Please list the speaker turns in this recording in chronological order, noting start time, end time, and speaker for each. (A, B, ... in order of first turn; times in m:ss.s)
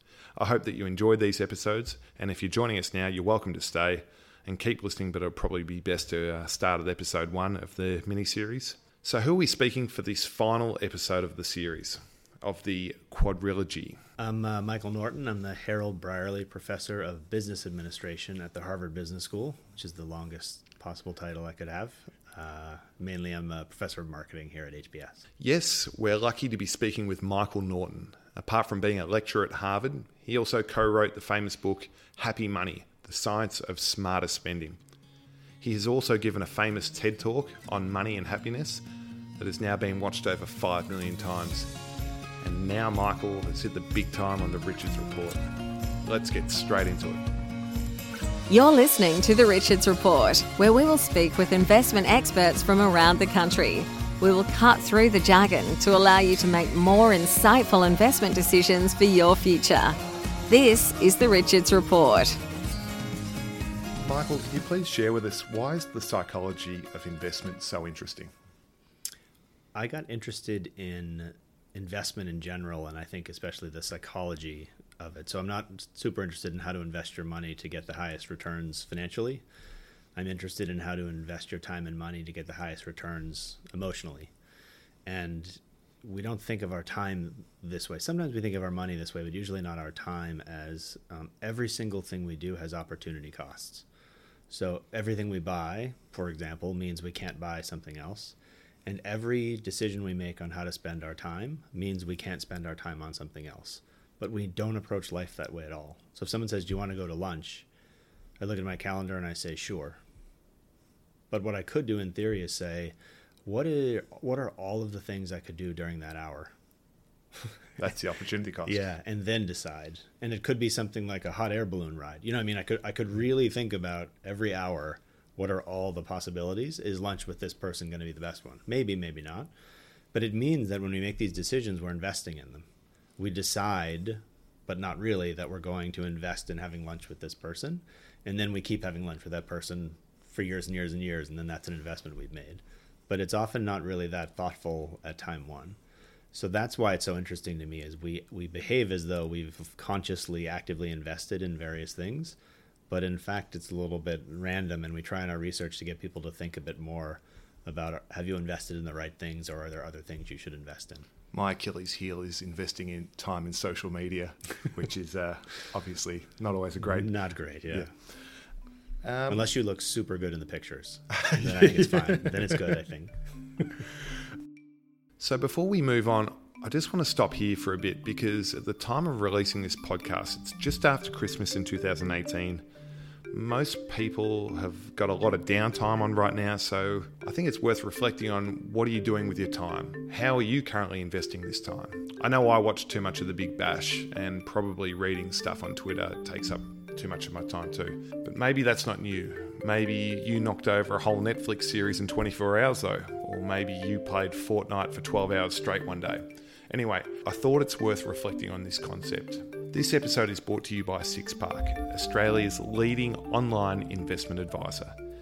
0:00.4-0:14.0 A
0:14.2-0:25.2 B
0:25.4-0:34.8 A
0:35.6-0:38.8 A
0:39.4-0:41.7 A
0:42.4-0:45.4 A
0:46.0-0:47.2 A
0:48.5-1:00.0 C
1:00.5-1:02.4 C
1:04.0-1:08.3 A
1:09.7-1:19.4 B
1:20.2-1:24.3 B
1:25.0-1:33.8 B
1:34.5-1:47.7 B
1:48.4-1:50.0 B
1:51.3-1:56.5 B
1:57.8-1:58.8 A
1:58.6-2:09.5 B
2:10.1-2:12.6 B
2:13.2-2:25.8 B
2:26.3-2:32.4 B
2:32.9-2:41.1 B
2:41.3-2:47.1 A
2:46.9-2:47.9 B
2:49.0-2:49.4 A
2:49.3-2:53.6 B
2:51.2-2:51.9 A
2:55.2-3:02.6 A
3:03.3-3:35.0 A